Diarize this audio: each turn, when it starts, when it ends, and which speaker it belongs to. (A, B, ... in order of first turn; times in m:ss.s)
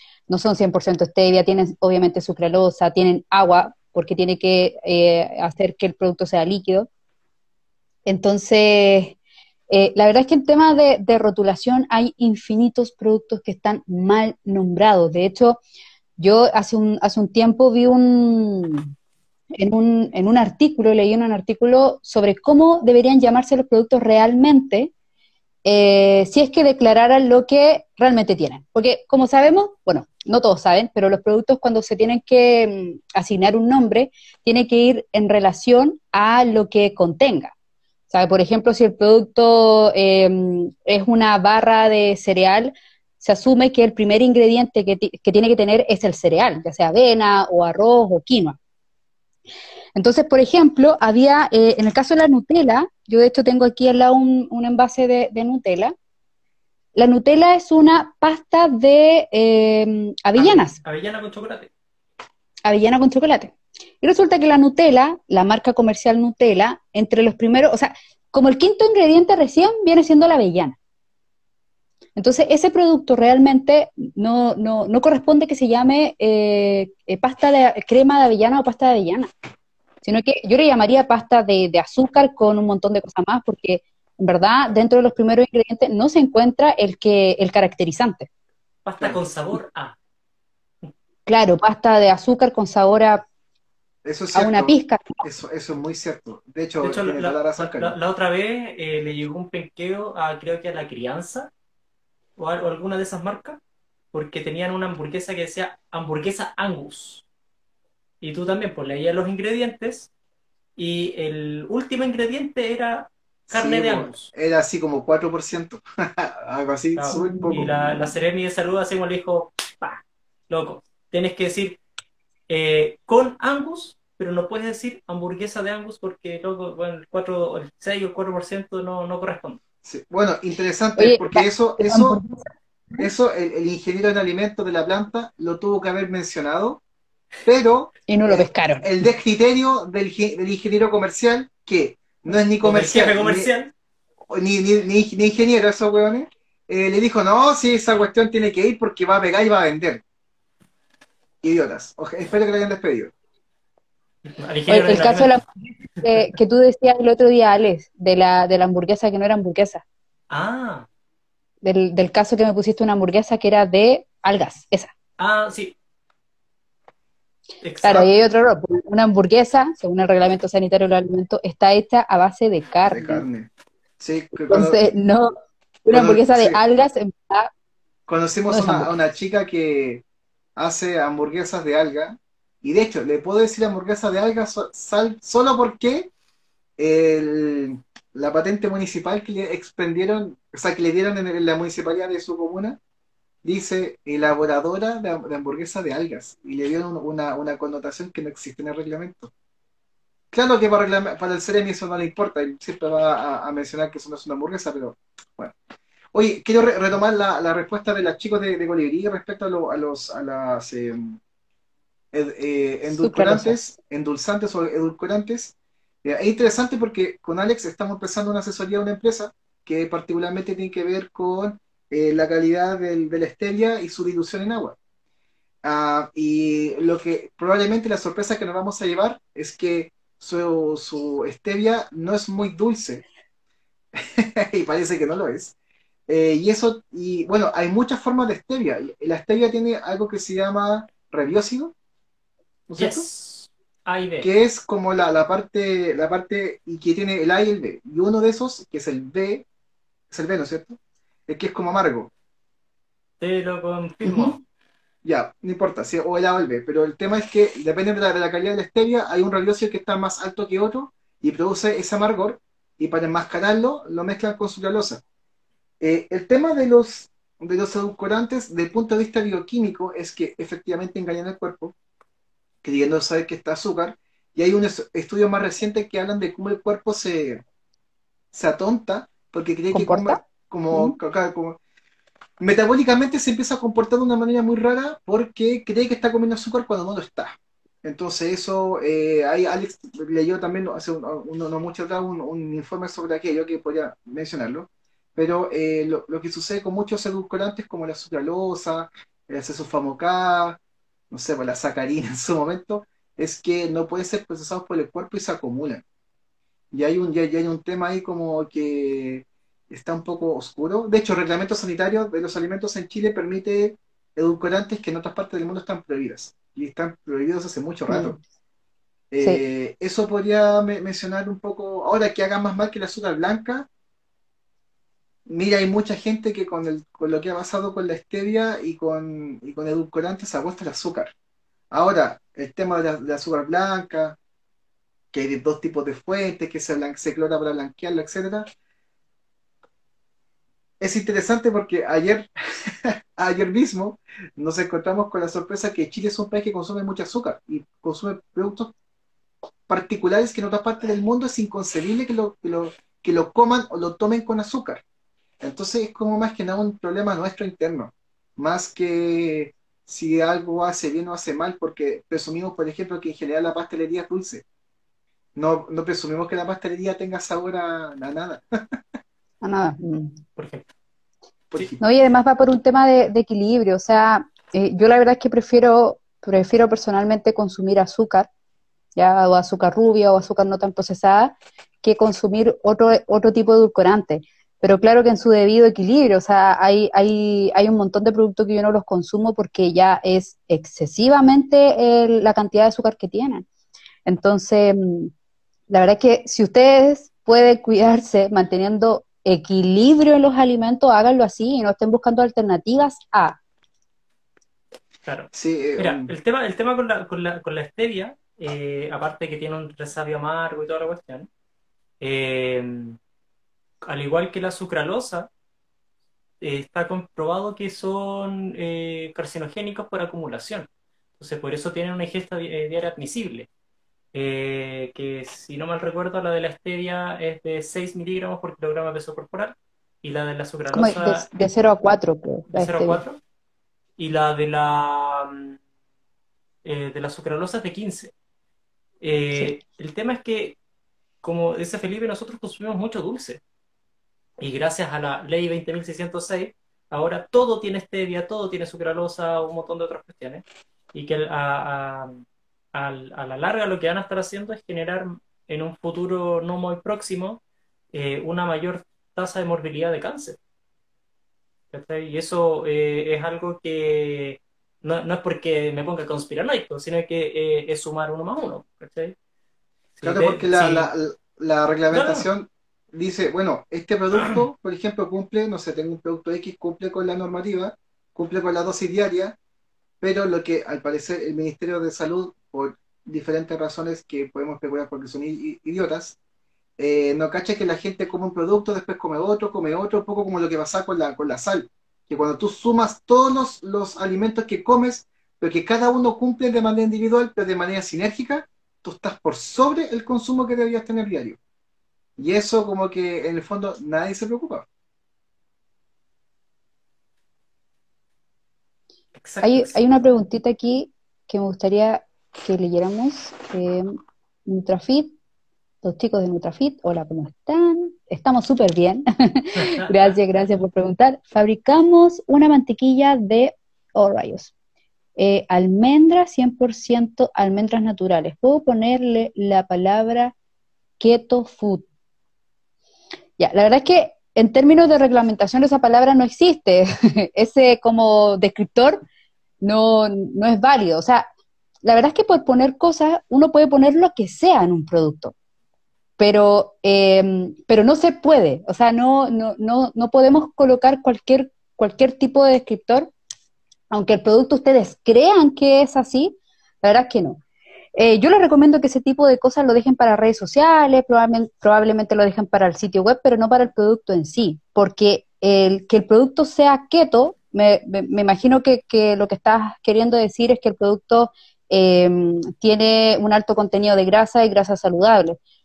0:00.3-0:06.9 A
0:08.0-0:09.2 A
0:09.7-0:15.6 A
0:16.2-0:18.9 A
0:19.6-0:24.9 A
0:25.6-0:37.5 A
0:38.1-0:48.6 A
0:49.9-0:55.9 A
0:56.9-1:00.8 A
1:00.4-1:01.7 B
1:02.6-1:10.8 A
1:12.2-1:19.3 A
1:20.0-1:28.3 A
1:28.8-1:30.0 B
1:31.3-1:33.2 A
1:34.0-1:38.0 C
1:34.3-1:35.2 A
1:36.8-1:41.5 B
1:42.4-1:43.6 B
1:44.1-1:47.2 B
1:48.2-1:50.1 B
1:50.8-1:54.3 B
1:53.5-1:58.0 C
1:57.0-2:01.8 B
1:57.1-1:57.4 A
2:02.5-2:09.6 B
2:09.8-2:12.2 C
2:11.0-2:13.1 A
2:13.0-2:16.8 C
2:17.4-2:23.5 C
2:18.1-2:18.9 A
2:22.6-2:23.7 B
2:24.3-2:30.0 C
2:31.4-2:33.1 C
2:34.3-2:35.4 B
2:34.7-2:39.8 A
2:40.3-2:40.9 B
2:41.6-2:44.9 A
2:45.2-2:45.8 B
2:47.6-2:48.1 B
2:47.8-2:53.2 A
2:52.8-2:54.8 C
2:54.5-2:55.3 A
2:55.9-2:57.5 A
2:55.9-2:56.6 C
2:58.1-3:00.0 C
2:58.5-2:58.9 A
3:00.6-3:06.1 C
3:06.8-3:12.8 C
3:13.4-3:19.3 C
3:20.3-3:25.6 C
3:26.1-3:31.2 C
3:32.1-3:44.8 C
3:32.9-3:33.6 A
3:45.6-3:53.0 C
3:54.0-3:55.6 C
3:56.1-4:01.7 C
4:02.7-4:03.1 C
4:02.8-4:04.3 B
4:04.2-4:09.4 C
4:10.1-4:12.1 C
4:13.2-4:14.4 B
4:15.0-4:25.0 C
4:25.8-4:31.7 C
4:32.6-4:37.4 C
4:38.3-4:41.6 C
4:39.7-4:40.2 A
4:42.4-5:00.6 C
5:01.1-5:05.8 C
5:06.7-5:18.2 C
5:17.9-5:18.2 A
5:19.1-5:23.7 C
5:19.2-5:19.4 A
5:25.2-5:31.1 C
5:31.7-5:34.2 C
5:35.1-5:38.5 C
5:40.8-5:48.7 C
5:49.7-5:54.8 C
5:55.4-6:04.4 C
6:05.3-6:08.8 C
6:09.4-6:10.2 A
6:10.4-6:10.6 B
6:11.5-6:11.8 C
6:11.8-6:18.3 A
6:19.0-6:33.4 A
6:34.0-6:35.1 A
6:35.7-6:43.4 A
6:45.0-6:51.3 B
6:45.3-6:46.1 C
6:52.0-6:53.0 B
6:53.8-6:55.3 B
6:56.4-7:00.7 B
7:01.2-7:03.5 B
7:04.1-7:11.3 B
7:10.7-7:13.0 A
7:12.5-7:13.2 B
7:14.0-7:15.6 B
7:16.6-7:18.1 B
7:19.0-7:20.6 B
7:21.2-7:23.4 B
7:24.4-7:37.4 B
7:37.9-7:40.4 B
7:41.7-7:49.1 B
7:50.0-7:50.9 B
7:50.0-7:59.4 C
7:51.9-7:52.3 B
8:00.0-8:06.2 C
8:06.8-8:21.4 C
8:22.2-8:24.6 C
8:29.2-8:29.8 B
8:29.4-8:35.2 A
8:35.8-8:44.5 A
8:39.6-8:40.1 B
8:45.2-8:50.3 A
8:51.0-8:51.9 A
8:53.4-8:59.0 A
8:59.6-9:01.3 A
9:01.8-9:05.3 A
9:06.2-9:13.1 A
9:13.9-9:17.4 A
9:17.9-9:35.4 A